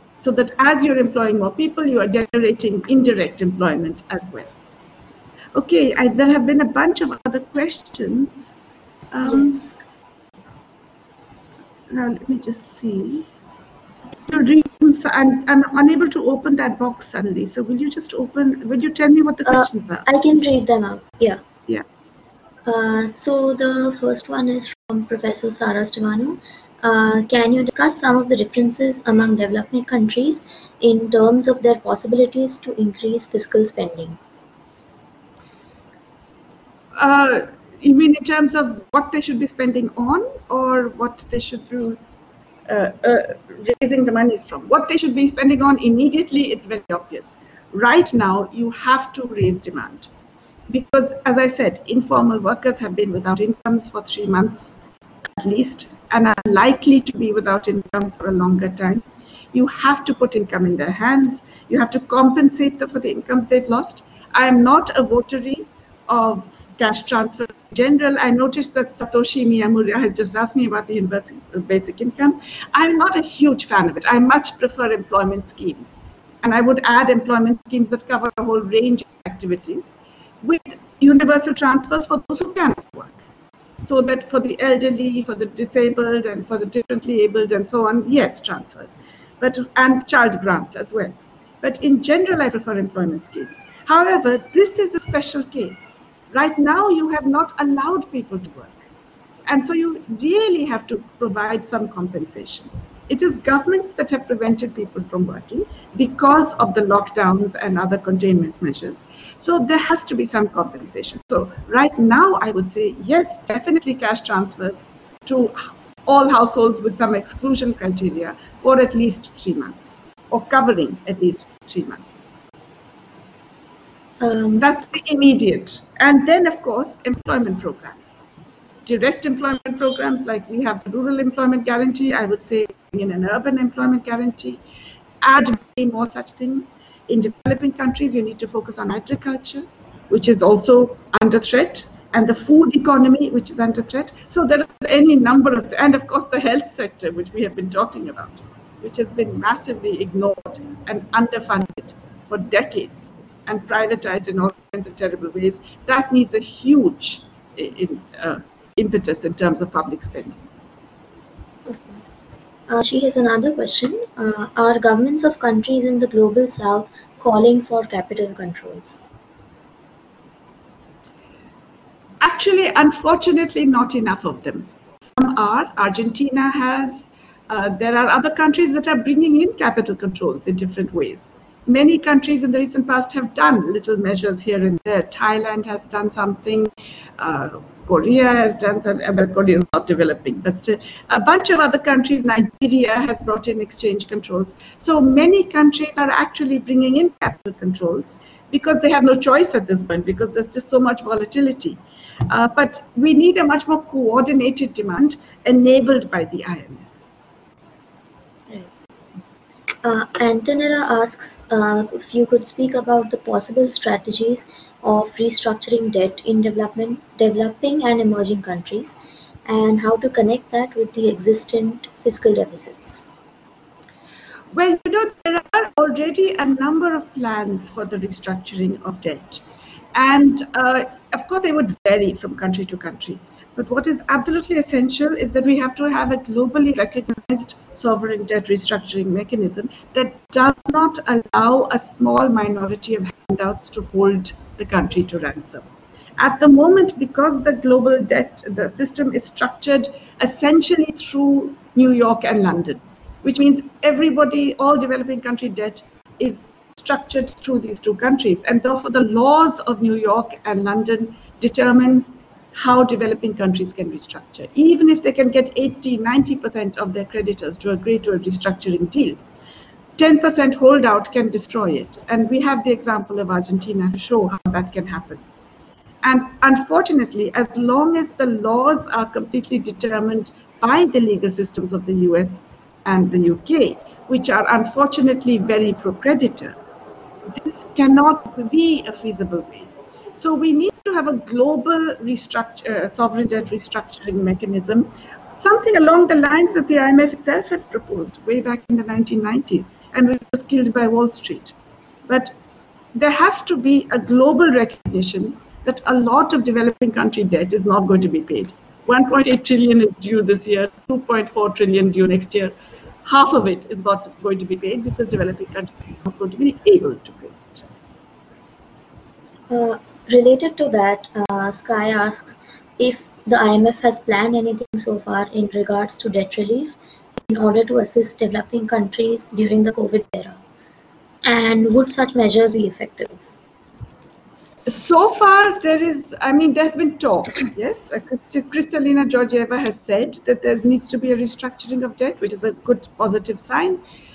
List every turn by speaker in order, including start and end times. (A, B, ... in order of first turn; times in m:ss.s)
0:00.2-0:04.5 A
0:05.6-0:08.5 A
0:09.1-0:09.6 A
0:09.3-0:09.7 B
0:11.9-0:13.3 A
0:14.3-0:20.1 A
0:19.5-0:21.4 B
0:22.6-0:34.2 B
0:37.0-0:42.0 A
0:42.7-0:50.1 A
0:50.7-0:54.8 A
0:55.3-1:23.2 A
1:23.8-1:38.9 A
1:39.5-2:02.2 A
2:04.2-2:04.7 B
2:04.6-2:08.2 A
2:08.8-2:14.6 A
2:15.2-2:40.4 A
2:42.7-2:49.0 B
2:52.2-3:27.0 A
3:29.8-3:43.0 B
3:44.5-3:49.4 A
3:49.9-4:05.7 A
4:06.2-4:29.2 A
4:30.0-4:35.2 A
4:36.0-4:46.6 A
4:47.3-5:01.6 A
5:02.1-5:02.4 A
5:03.0-5:12.5 A
5:13.0-5:17.7 A
5:19.5-5:26.8 B
5:27.3-5:30.4 B
5:31.2-5:33.2 B
5:34.7-5:43.8 A